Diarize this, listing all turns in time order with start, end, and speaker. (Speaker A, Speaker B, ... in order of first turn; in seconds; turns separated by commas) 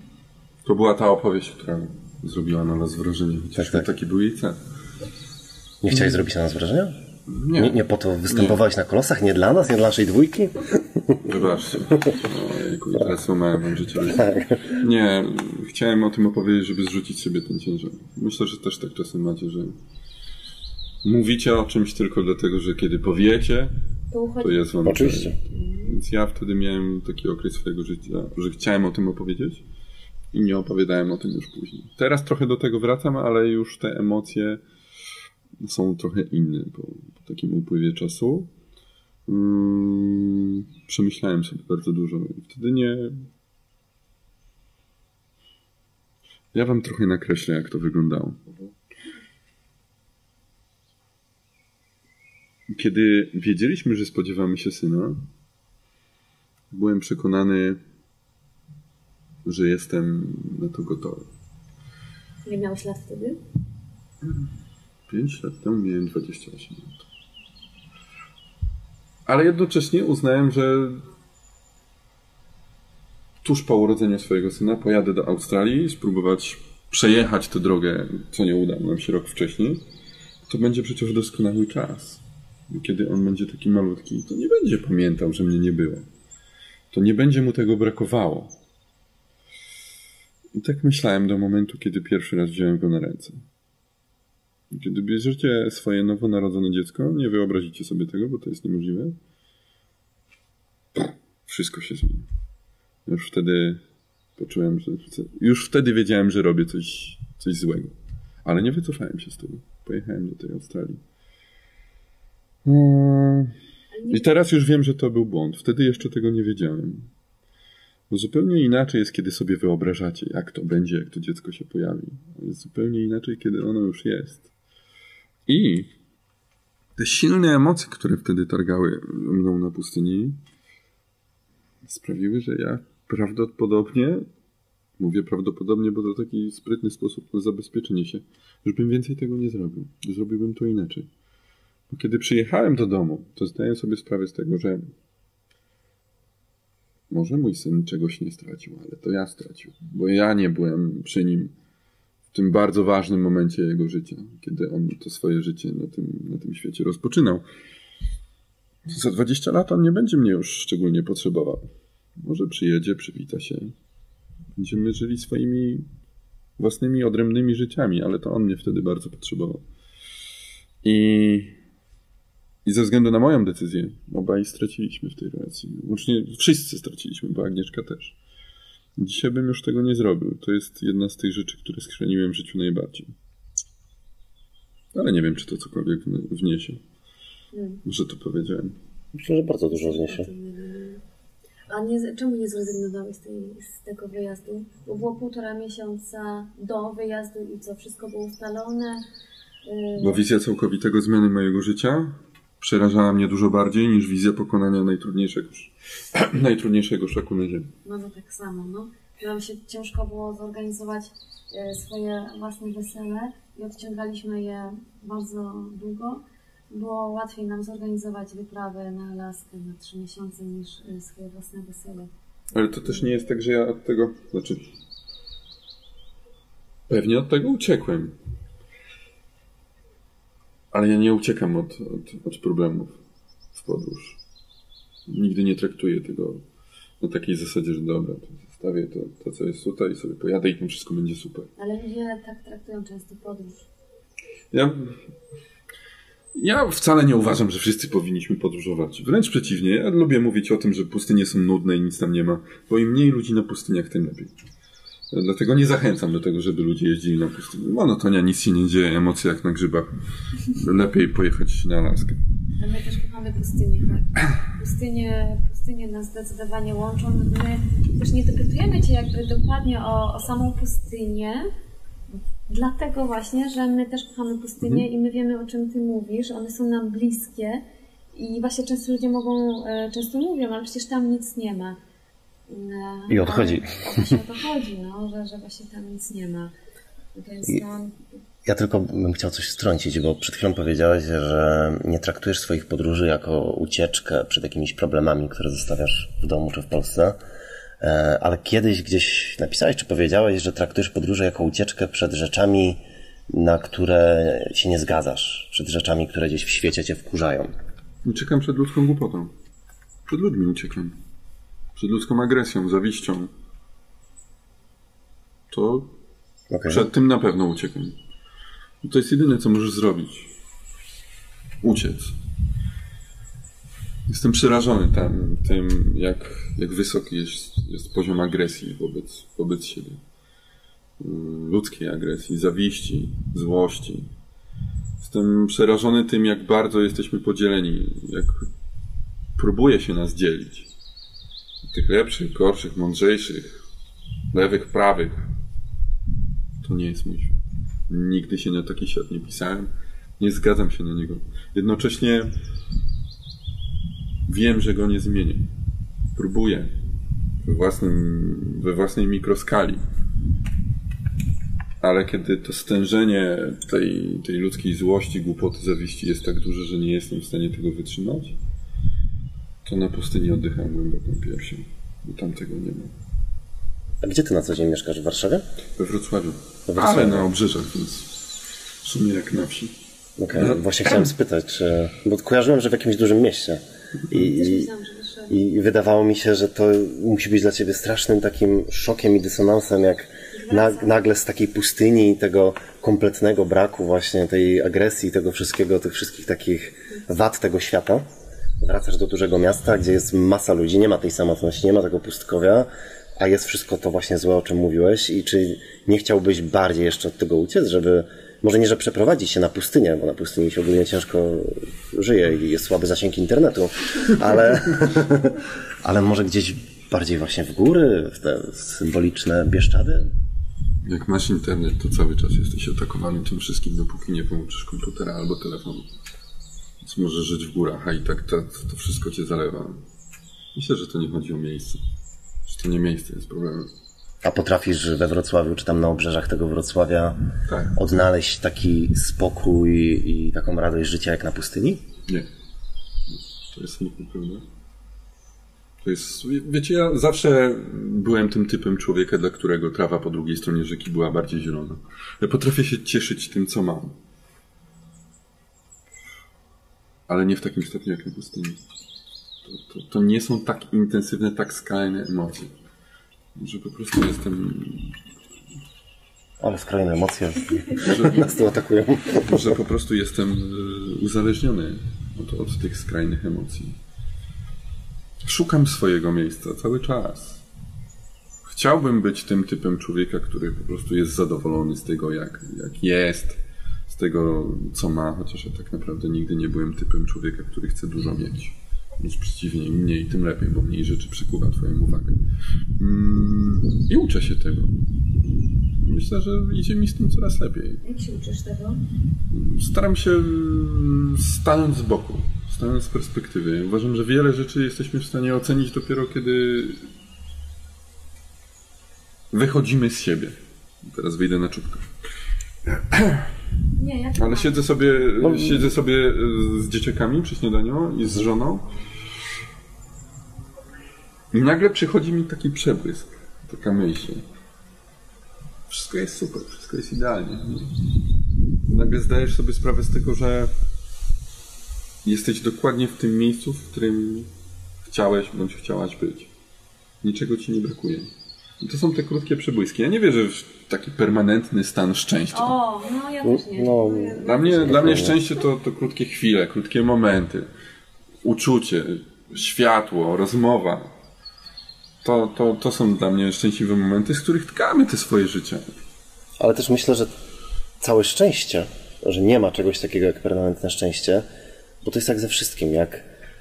Speaker A: 0.7-4.6, Speaker B: 3.6-3.9, Speaker B: 5.8-7.0, Speaker A: 5.9-6.2, Speaker A: 7.3-8.6, Speaker B: 7.6-11.2, Speaker A: 11.2-19.8, Speaker B: 14.1-14.6, Speaker A: 21.0-23.7, Speaker C: 24.1-24.6, Speaker A: 24.4-29.6, Speaker B: 24.8-25.4, Speaker C: 25.5-26.0, Speaker A: 30.3-34.6, Speaker A: 35.6-38.5, Speaker A: 39.3-43.3, Speaker A: 46.5-48.5, Speaker A: 52.7-55.2, Speaker A: 56.7-57.8, Speaker A: 59.5-61.3, Speaker C: 62.5-63.4, Speaker A: 65.1-67.0, Speaker A: 69.3-71.0, Speaker A: 73.4-79.8, Speaker A: 80.5-86.1, Speaker A: 86.9-88.6, Speaker A: 90.5-93.4, Speaker A: 94.7-99.2, Speaker A: 100.9-102.3, Speaker A: 103.1-103.8, Speaker A: 104.4-111.0, Speaker A: 112.7-113.5, Speaker C: 113.9-114.3, Speaker A: 114.1-117.1, Speaker A: 118.1-124.5, Speaker A: 125.5-125.9, Speaker A: 127.0-130.4, Speaker A: 131.8-134.3, Speaker A: 135.0-141.1, Speaker A: 141.9-144.8, Speaker A: 147.1-151.5, Speaker A: 152.3-157.4, Speaker A: 158.9-161.7, Speaker A: 162.2-163.8, Speaker A: 164.6-165.9, Speaker A: 166.6-169.6, Speaker A: 170.8-171.6, Speaker A: 172.7-178.2, Speaker A: 179.0-183.1, Speaker A: 184.9-186.8, Speaker C: 187.5-187.8, Speaker A: 187.8-188.8, Speaker B: 189.2-190.3, Speaker C: 189.7-191.0, Speaker C: 191.7-199.1, Speaker C: 199.7-200.2, Speaker A: 200.0-207.7, Speaker C: 207.8-222.1, Speaker A: 222.5-224.7, Speaker A: 226.9-228.2, Speaker A: 230.7-233.0, Speaker A: 233.5-234.2, Speaker A: 235.1-236.4, Speaker A: 237.0-241.5, Speaker C: 241.6-243.7, Speaker A: 244.5-245.0, Speaker A: 246.4-254.3, Speaker A: 255.1-259.9, Speaker A: 260.4-262.2, Speaker C: 262.6-271.5, Speaker C: 272.5-281.8, Speaker C: 282.5-286.5, Speaker B: 283.1-283.9, Speaker C: 287.1-288.0, Speaker B: 288.4-297.2, Speaker B: 297.8-307.5, Speaker A: 308.1-309.3, Speaker A: 310.1-310.9, Speaker A: 311.8-313.3, Speaker A: 315.5-315.9, Speaker B: 316.5-316.9, Speaker A: 316.7-318.0, Speaker A: 318.8-320.3, Speaker A: 321.6-322.1, Speaker A: 324.1-330.0, Speaker A: 331.0-334.1, Speaker A: 335.0-338.5, Speaker A: 339.4-340.7, Speaker A: 341.7-343.6, Speaker A: 344.3-345.3, Speaker A: 346.6-352.3, Speaker A: 354.3-355.5, Speaker A: 356.2-356.7, Speaker A: 357.4-359.8, Speaker A: 361.8-368.4, Speaker A: 369.6-372.9, Speaker B: 374.0-375.4, Speaker A: 375.8-378.2, Speaker B: 376.7-377.3, Speaker A: 378.8-379.7, Speaker B: 380.2-384.7, Speaker A: 380.4-381.1, Speaker C: 384.1-385.4, Speaker B: 385.3-398.1, Speaker C: 390.3-390.9, Speaker B: 398.6-420.1, Speaker A: 420.8-425.9, Speaker A: 426.8-429.8, Speaker A: 430.5-431.8, Speaker A: 432.5-433.7, Speaker B: 434.2-441.8, Speaker A: 437.5-437.8, Speaker A: 443.1-444.4, Speaker A: 445.8-454.0, Speaker A: 457.1-458.6, Speaker A: 459.4-462.5, Speaker A: 463.4-465.0, Speaker B: 466.4-469.5, Speaker A: 467.8-468.3, Speaker A: 469.1-473.8, Speaker A: 475.2-477.4, Speaker A: 478.4-492.2, Speaker A: 492.8-494.8, Speaker A: 495.8-497.8, Speaker C: 497.8-498.8, Speaker A: 499.3-506.9, Speaker A: 509.3-511.9, Speaker A: 512.7-513.3, Speaker C: 513.8-515.0, Speaker A: 514.2-518.7, Speaker B: 515.2-515.7, Speaker A: 521.3-524.2, Speaker A: 525.7-527.8, Speaker A: 528.7-530.5, Speaker A: 532.0-534.3, Speaker A: 534.9-536.3, Speaker A: 537.0-538.1, Speaker A: 538.6-542.5, Speaker C: 542.3-545.2, Speaker B: 543.2-545.2, Speaker A: 544.2-547.5, Speaker A: 548.2-550.9, Speaker A: 552.0-555.7, Speaker B: 556.4-557.1, Speaker B: 557.8-561.2, Speaker B: 561.8-563.0